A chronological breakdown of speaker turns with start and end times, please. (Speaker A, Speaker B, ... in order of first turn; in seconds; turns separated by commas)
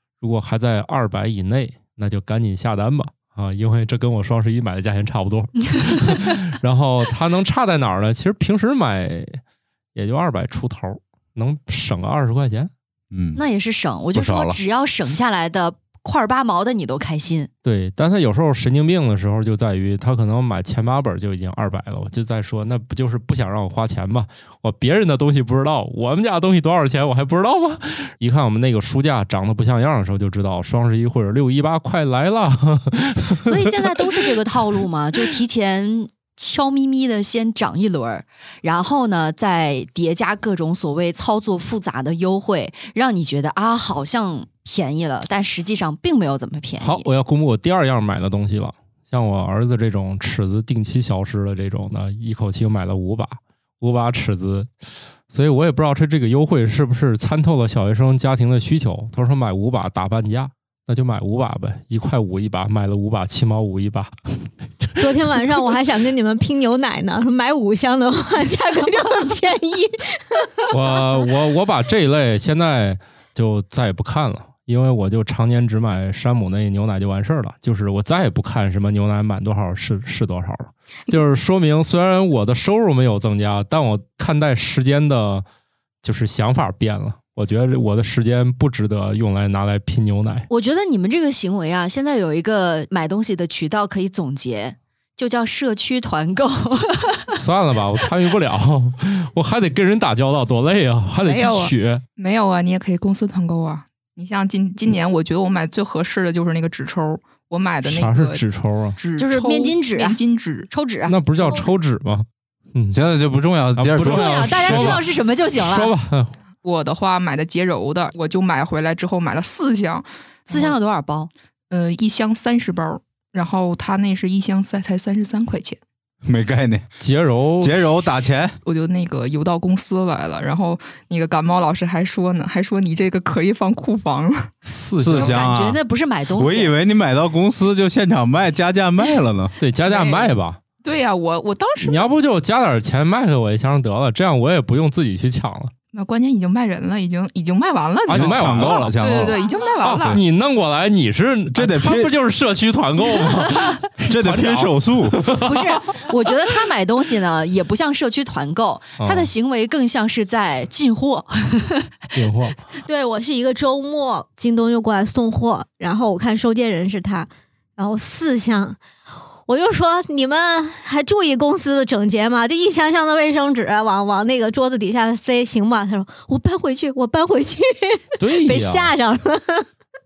Speaker A: 0.2-9.4, Speaker B: 5.8-6.2, Speaker A: 9.9-12.7, Speaker C: 13.1-13.4, Speaker B: 13.3-17.5, Speaker C: 14.1-14.6, Speaker A: 17.6-34.3, Speaker B: 33.4-47.1, Speaker A: 46.8-54.7, Speaker A: 55.3-64.1, Speaker D: 65.0-70.7, Speaker A: 70.7-85.4, Speaker A: 86.0-90.5, Speaker B: 90.5-97.4, Speaker A: 97.3-102.0, Speaker E: 101.2-108.4, Speaker A: 107.8-109.0, Speaker E: 109.0-110.7, Speaker B: 109.2-111.2, Speaker A: 111.1-113.0, Speaker C: 112.9-115.0, Speaker A: 113.8-116.3, Speaker B: 114.0-115.9, Speaker E: 116.6-120.8, Speaker B: 120.5-121.3, Speaker E: 121.7-125.8, Speaker C: 126.2-126.9, Speaker A: 127.0-127.8, Speaker C: 127.6-128.6, Speaker E: 128.6-134.5, Speaker A: 134.6-135.4, Speaker C: 135.0-135.8, Speaker B: 135.1-136.7, Speaker C: 136.3-139.5, Speaker A: 139.6-140.6, Speaker E: 139.8-142.1, Speaker A: 141.8-145.7, Speaker E: 145.9-150.2, Speaker A: 148.1-155.6, Speaker C: 148.1-149.4, Speaker C: 151.5-152.1, Speaker C: 154.0-155.2, Speaker B: 155.4-161.9, Speaker A: 159.0-159.3, Speaker A: 162.1-162.6, Speaker D: 162.8-168.8, Speaker D: 169.5-179.7, Speaker A: 178.2-178.9